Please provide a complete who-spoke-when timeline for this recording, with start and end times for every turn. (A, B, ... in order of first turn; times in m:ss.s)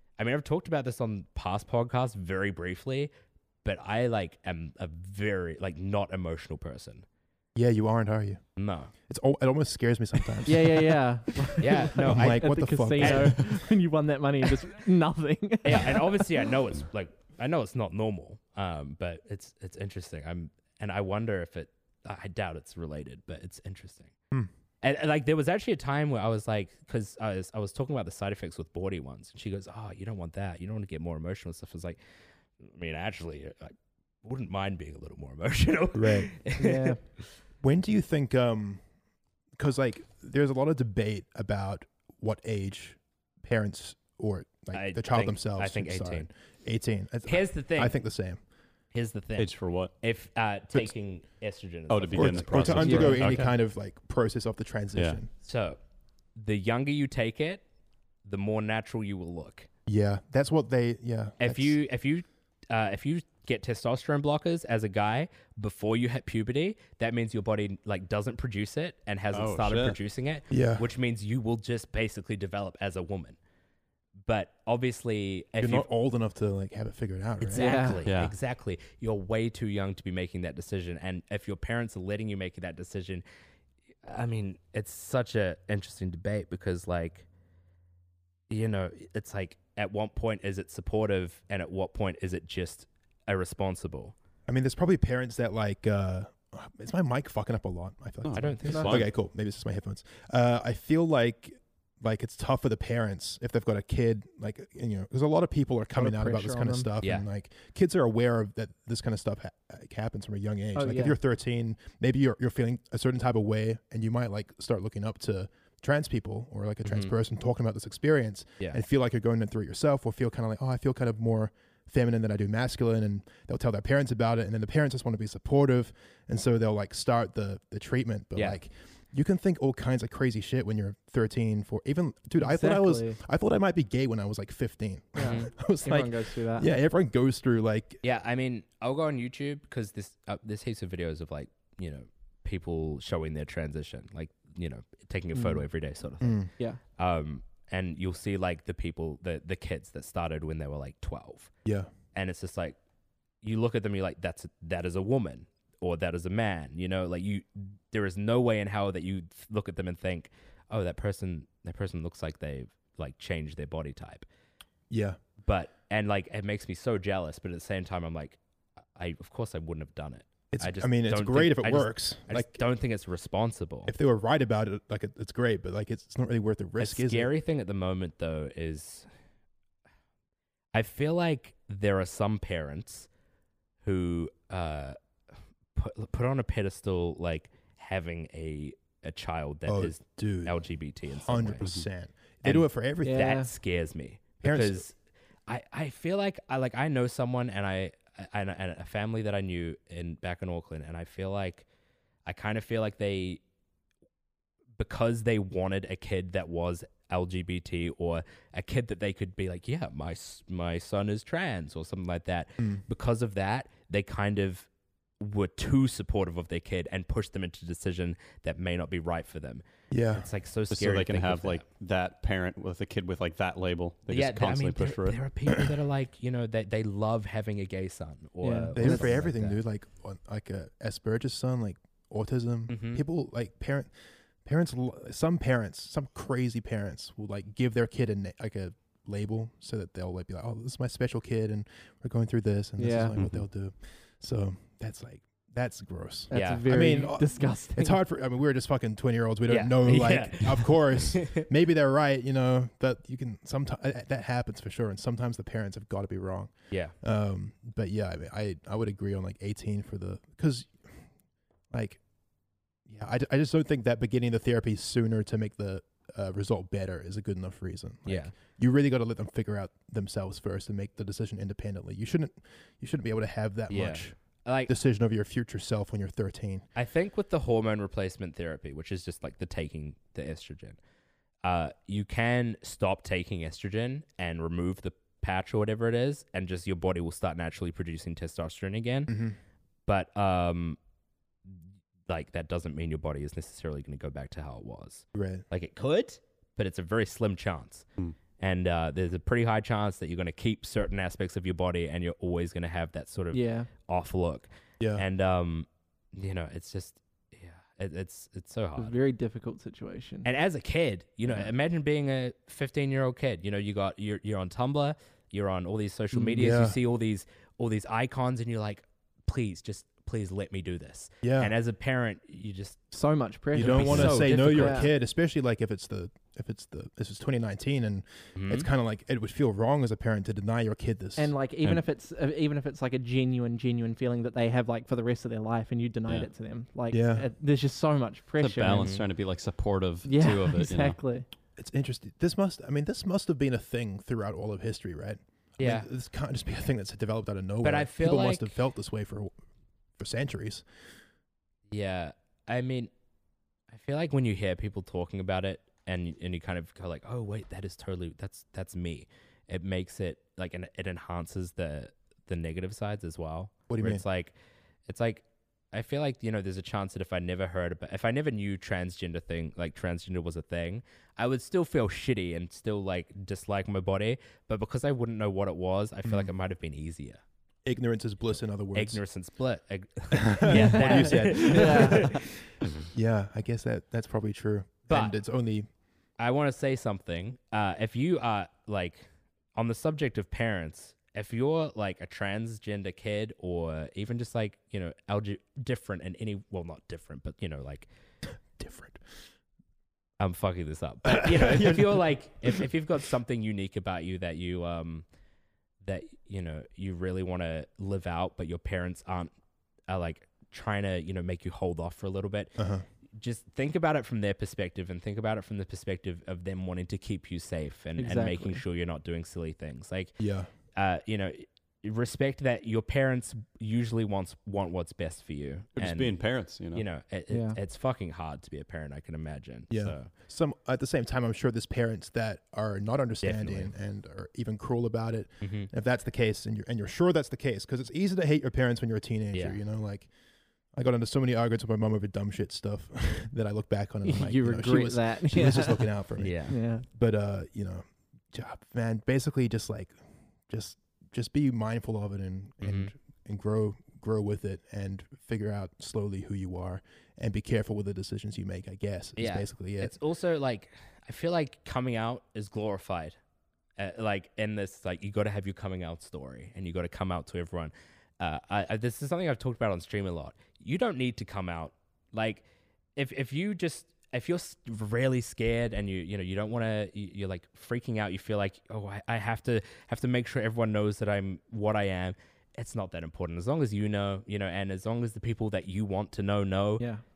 0:00.2-0:03.1 A
0:03.6-0:07.0 A
0:07.5-0:08.4 B
0:08.6-0:08.9 A
0:09.1-0:13.6 B
0:10.4-0:16.5 C
0:11.6-0:12.4 A
0:13.0-0:13.4 A
0:15.6-0:24.1 A
0:24.8-0:32.0 A
0:32.6-0:36.9 A
0:35.9-0:36.3 B
0:36.6-0:37.0 C
0:37.6-0:38.8 B
0:39.6-0:48.4 B
0:44.7-0:46.3 A
0:47.2-0:48.0 A
0:48.9-0:53.4 A
0:49.4-0:49.9 D
0:51.9-0:53.5 D
0:52.1-0:55.3 B
0:52.8-0:53.4 C
0:54.9-0:55.2 D
0:55.4-0:55.8 A
0:56.4-0:57.6 A
0:58.2-0:59.7 A
0:59.9-1:01.8 B
1:01.4-1:13.4 A
1:09.3-1:10.0 D
1:10.5-1:10.8 B
1:14.2-1:15.9 A
1:15.6-1:17.7 B
1:17.4-1:23.2 A
1:17.5-1:18.0 C
1:18.0-1:18.4 D
1:24.0-1:27.2 A
1:28.5-1:34.1 A
1:34.5-2:18.0 B
1:38.2-1:39.1 D
1:38.3-1:39.1 A
1:46.0-1:46.9 C
1:47.0-1:47.2 A
1:50.7-1:51.2 C
1:56.8-1:57.1 A
2:12.4-2:13.2 C
2:15.2-2:16.7 C
2:15.2-2:15.5 A
2:18.0-2:31.5 A
2:25.3-2:25.6 C
2:26.2-2:26.5 B
2:32.1-2:32.8 A
2:33.4-2:44.2 A
2:44.9-2:45.2 B
2:45.4-2:48.4 A
2:48.9-2:53.9 A
2:50.5-2:52.6 B
2:53.8-2:57.3 B
2:56.8-2:59.1 A
3:00.7-3:03.1 A
3:03.8-3:05.0 A
3:05.7-3:11.7 A
3:09.7-3:10.5 B
3:11.1-3:13.3 B
3:12.4-3:14.9 A
3:13.0-3:13.5 C
3:14.4-3:14.8 B
3:15.5-3:21.6 A
3:22.2-3:23.4 A
3:24.8-3:34.7 A
3:35.2-3:41.6 A
3:39.9-3:40.3 B
3:40.7-3:45.2 D
3:44.1-3:49.6 A
3:48.4-3:49.2 C
3:48.7-3:53.9 B
3:52.7-3:53.0 A
3:54.4-4:21.0 B
4:02.8-4:03.2 C
4:03.2-4:03.4 D
4:06.3-4:08.0 C
4:06.3-4:06.6 A
4:09.5-4:11.4 A
4:21.7-4:22.0 B
4:22.9-4:36.6 B
4:28.0-4:28.3 A
4:33.7-4:34.7 A
4:36.8-4:40.8 A
4:41.4-4:49.2 A
4:49.1-4:49.4 B
4:49.9-4:50.8 A
4:52.1-4:57.8 A
4:55.1-4:55.4 B
4:58.4-5:09.0 A
5:03.3-5:03.7 C
5:04.8-5:05.0 B
5:08.8-5:10.3 C
5:10.2-5:22.8 A
5:16.1-5:16.4 C
5:16.4-5:16.8 B
5:21.2-5:21.5 B
5:22.9-5:24.9 C
5:23.5-5:31.3 B
5:23.5-5:24.9 A
5:28.4-5:28.7 A
5:31.2-5:38.9 C
5:36.9-5:37.3 B
5:38.4-5:41.0 D
5:38.6-5:39.0 A
5:40.0-5:41.3 C
5:41.6-5:49.3 B
5:45.6-5:45.9 A
5:47.6-5:48.5 A
5:50.0-5:50.6 B
5:51.7-5:52.9 A
5:53.7-6:04.3 A
6:03.7-6:04.0 B
6:04.9-6:17.2 A
6:17.6-6:19.0 B
6:18.7-6:22.2 A
6:20.1-6:22.3 B
6:20.5-6:22.2 C
6:22.9-6:25.7 B
6:24.9-6:25.2 A
6:26.2-6:37.9 A
6:38.6-6:39.0 B
6:40.2-6:45.0 A
6:41.1-6:42.0 B
6:45.8-6:49.3 A
6:49.9-6:52.6 A
6:52.6-6:52.8 B
6:53.2-7:00.2 A
6:58.0-6:58.6 C
7:00.2-7:00.5 B
7:00.7-7:10.1 A
7:05.8-7:06.8 D
7:07.3-7:07.6 C
7:09.7-7:20.1 B
7:13.2-7:13.7 A
7:15.4-7:15.7 A
7:19.3-7:19.6 A
7:20.7-7:40.0 B
7:24.0-7:26.8 C
7:26.2-7:26.6 A
7:32.6-7:32.9 A
7:39.2-7:43.2 A
7:43.8-7:52.4 A
7:53.0-8:06.8 A